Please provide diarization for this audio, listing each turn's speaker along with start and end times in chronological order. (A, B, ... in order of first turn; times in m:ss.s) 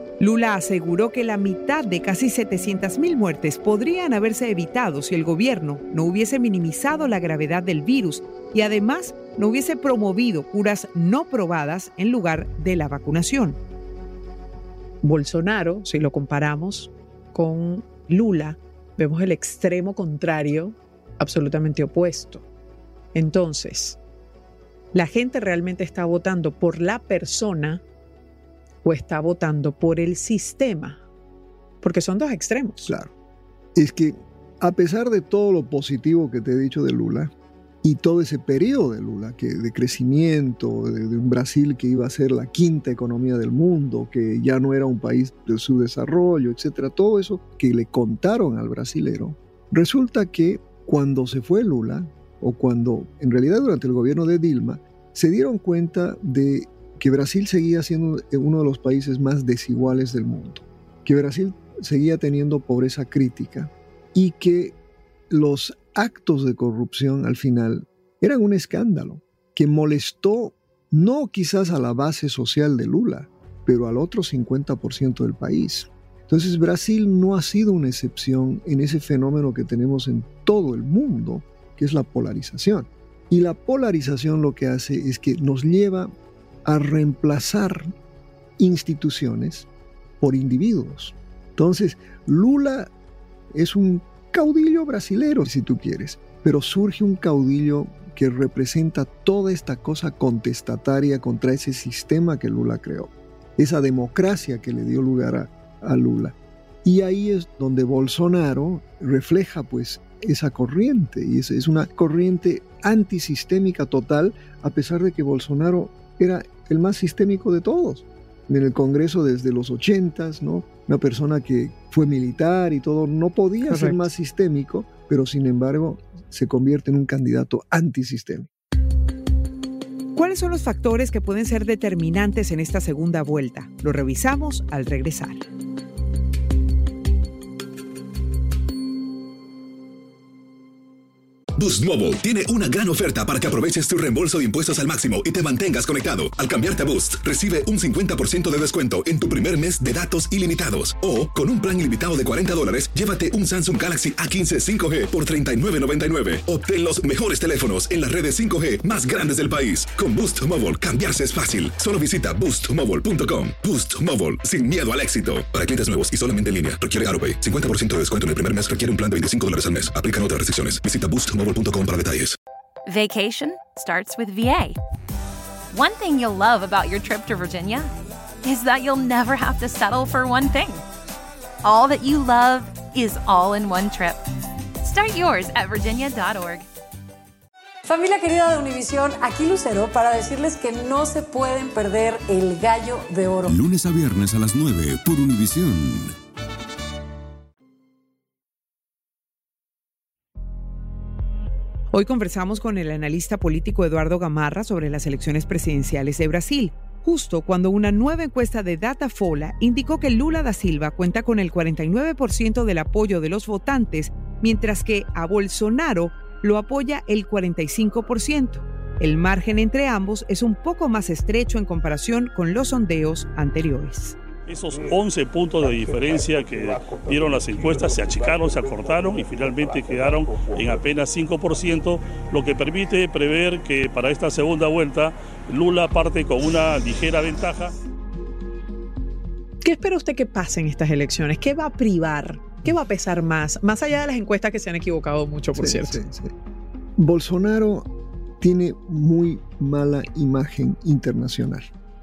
0:00.2-0:13.6 A
0:15.0-0:22.4 B
0:23.1-0:24.0 B
0:24.9-0:27.8 B
0:28.8-0:31.0 B
0:31.8-0:32.9 B
0:32.9-0:33.1 C
0:33.8-0:37.3 C
0:37.8-1:04.8 C
1:05.3-1:26.1 C
1:26.6-1:27.9 C
1:28.6-1:29.7 C
1:30.2-1:32.9 C
1:33.5-2:08.5 C
2:03.6-2:04.1 B
2:10.1-2:15.4 A
2:21.6-2:52.4 D
2:52.8-2:54.8 E
2:55.7-2:57.9 E
2:58.4-3:00.8 E
3:01.6-3:04.2 E
3:04.8-3:06.6 E
3:07.8-3:13.5 F
3:13.5-3:16.1 G
3:21.9-3:44.2 A
3:44.5-3:57.7 H
3:59.6-4:06.0 B
4:05.6-4:06.3 C
4:07.0-4:07.9 C
4:08.4-4:11.7 C